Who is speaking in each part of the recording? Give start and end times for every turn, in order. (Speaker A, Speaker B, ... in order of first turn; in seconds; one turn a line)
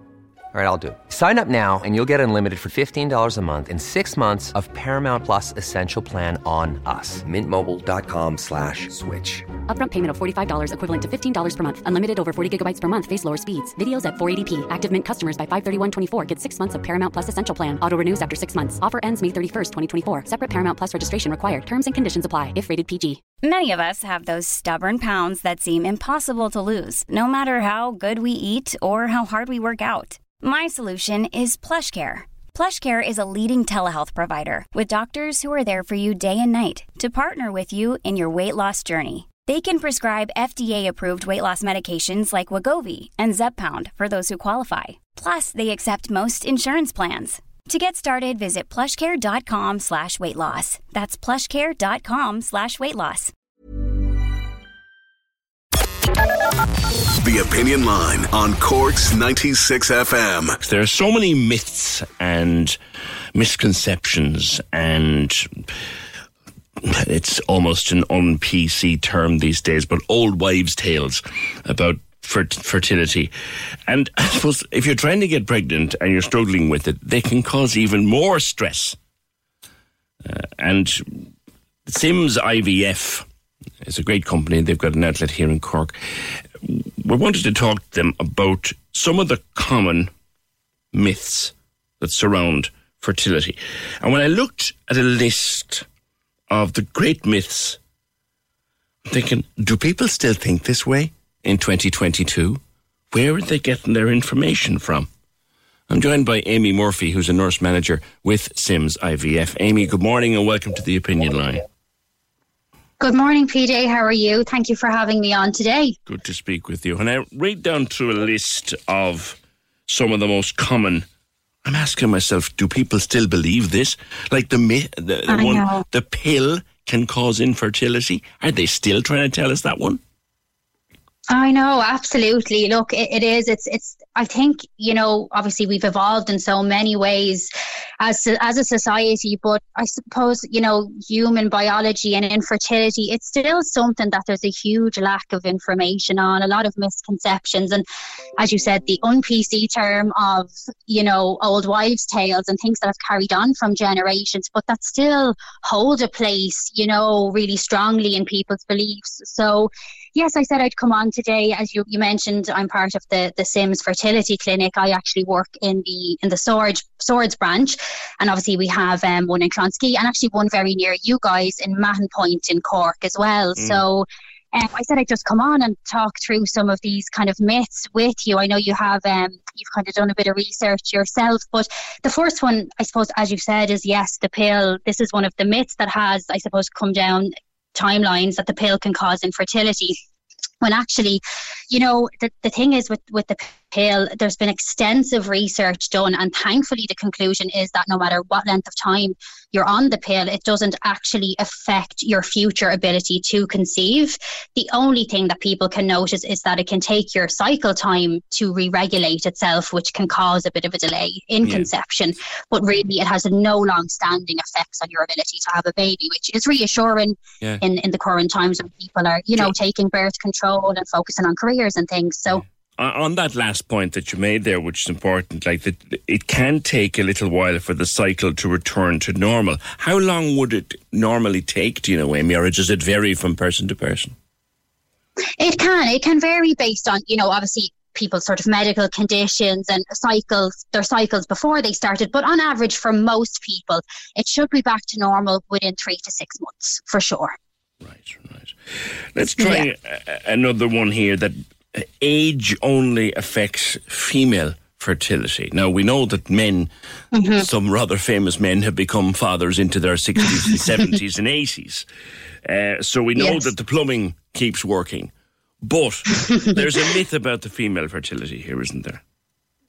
Speaker A: 0.5-9.5
Speaker B: 9.7-23.3
Speaker C: 23.3-53.3
Speaker D: 57.2-60.6
Speaker E: 60.6-62.8
Speaker E: 63.4-65.5
Speaker E: 66.8-73.3
Speaker E: 73.9-79.0
Speaker E: 80.2-81.3
Speaker E: 81.9-83.3
Speaker E: 83.8-90.1
Speaker E: 90.9-95.9
Speaker E: 96.5-97.8
Speaker E: 99.1-102.6
Speaker E: 103.1-105.1
Speaker E: 105.9-111.6
Speaker F: 113.0-116.0
Speaker E: 116.1-121.1
Speaker E: 121.7-130.0
Speaker F: 125.3-125.8
Speaker F: 131.3-137.5
Speaker F: 138.0-147.8
Speaker F: 148.4-190.0
Speaker E: 173.6-173.8
Speaker F: 190.6-222.4
Speaker E: 211.4-211.7
Speaker E: 222.3-234.2
Speaker F: 235.4-247.3
Speaker E: 247.8-248.6
Speaker E: 249.1-256.7
Speaker F: 249.4-249.7
Speaker F: 257.1-257.5
Speaker E: 257.4-261.9
Speaker E: 262.4-265.1
Speaker F: 263.2-263.5
Speaker E: 265.6-269.0
Speaker F: 266.1-266.6